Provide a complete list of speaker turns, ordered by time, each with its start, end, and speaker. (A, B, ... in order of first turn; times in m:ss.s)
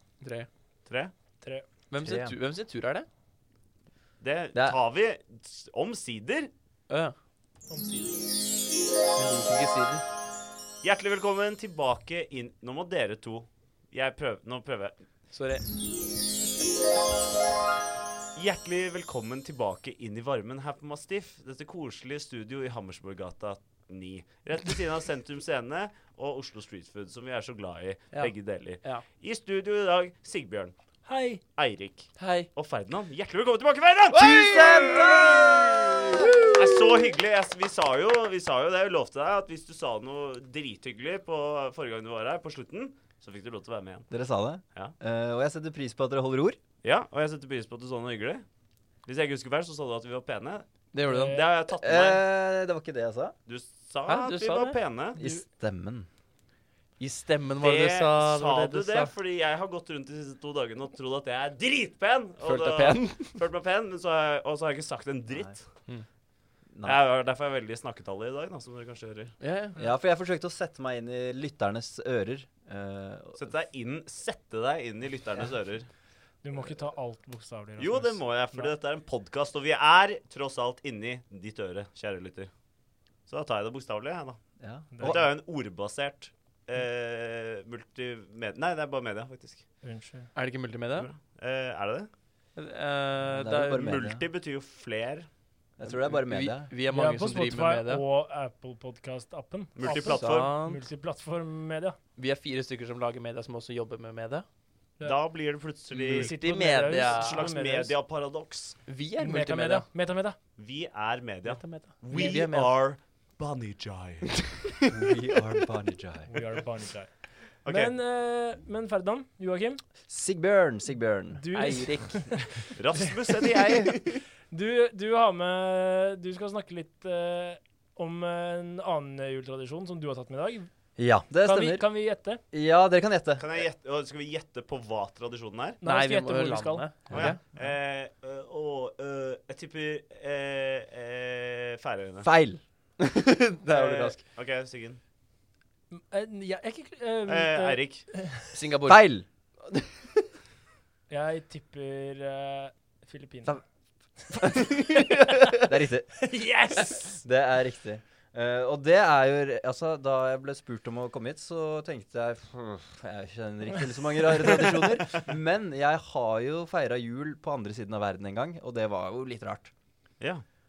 0:00.2-0:00.5 A
0:00.9-0:01.1 B
0:01.9-0:03.1 A
0:02.0-0:02.4 C
0:04.2-0:06.5 B
0:06.9-0:07.1 A
0:07.7-0:08.2 D
0:09.1-0:10.0 A
0:10.8-0:15.0 B
0:15.3-0:15.6 A
0:18.3-0:30.7 B
0:28.1-0:29.0 A
0:31.0-0:31.4 D
0:31.5-0:35.5 B
0:32.2-0:32.5 A
0:34.1-0:36.8 C
0:36.5-0:44.1 B
0:44.1-0:46.6 C
0:46.8-0:48.4 B
0:49.0-0:52.3 B
0:50.9-0:51.4 A
0:51.1-0:51.4 D
0:51.8-0:53.3 C
0:53.5-0:55.2 B
0:54.0-0:54.8 A
0:55.2-0:56.1 C
0:57.0-0:59.1 A
0:57.6-1:05.6 B
1:02.4-1:03.4 A
1:05.3-1:05.6 C
1:06.7-1:07.0 C
1:06.8-1:09.3 B
1:09.4-1:09.8 A
1:09.8-1:13.5 C
1:13.3-1:15.9 B
1:16.4-1:18.7 D
1:17.8-1:22.5 B
1:23.3-1:24.4 B
1:24.6-1:25.3 C
1:25.0-1:29.6 B
1:29.8-1:30.3 D
1:30.3-1:31.1 A
1:31.0-1:32.1 B
1:32.6-1:34.0 A
1:33.2-1:34.2 C
1:33.8-1:35.3 B
1:35.8-1:36.7 C
1:35.8-1:38.0 A
1:36.9-1:42.0 D
1:39.8-1:40.5 B
1:39.9-1:40.8 A
1:42.2-1:44.4 A
1:45.0-1:46.3 B
1:45.9-1:47.5 A
1:46.0-1:48.0 D
1:47.0-1:48.8 B
1:48.8-1:49.9 A
1:49.2-1:50.4 D
1:50.6-1:54.4 B
1:51.4-1:52.9 A
1:52.1-1:52.4 D
1:54.9-1:56.4 C
1:56.3-1:59.8 D
1:57.6-1:58.0 B
2:00.0-2:01.5 C
2:01.4-2:03.1 D
2:01.5-2:02.7 A
2:02.7-2:04.0 B
2:04.4-2:10.7 D
2:11.0-2:11.9 C
2:11.4-2:12.4 D
2:12.5-2:13.6 C
2:13.4-2:15.8 B
2:15.8-2:16.9 D
2:15.8-2:17.4 A
2:17.1-2:17.3 C
2:17.1-2:22.3 B
2:22.2-2:22.6 C
2:23.0-2:24.2 A
2:23.7-2:25.0 B
2:25.9-2:28.5 D
2:27.3-2:28.1 B
2:28.5-2:29.1 A
2:28.8-2:29.2 C
2:29.7-2:30.1 A
2:31.1-2:33.6 D
2:34.3-2:35.5 D
2:34.4-2:35.4 A
2:35.6-2:49.7 C
2:36.2-2:37.2 D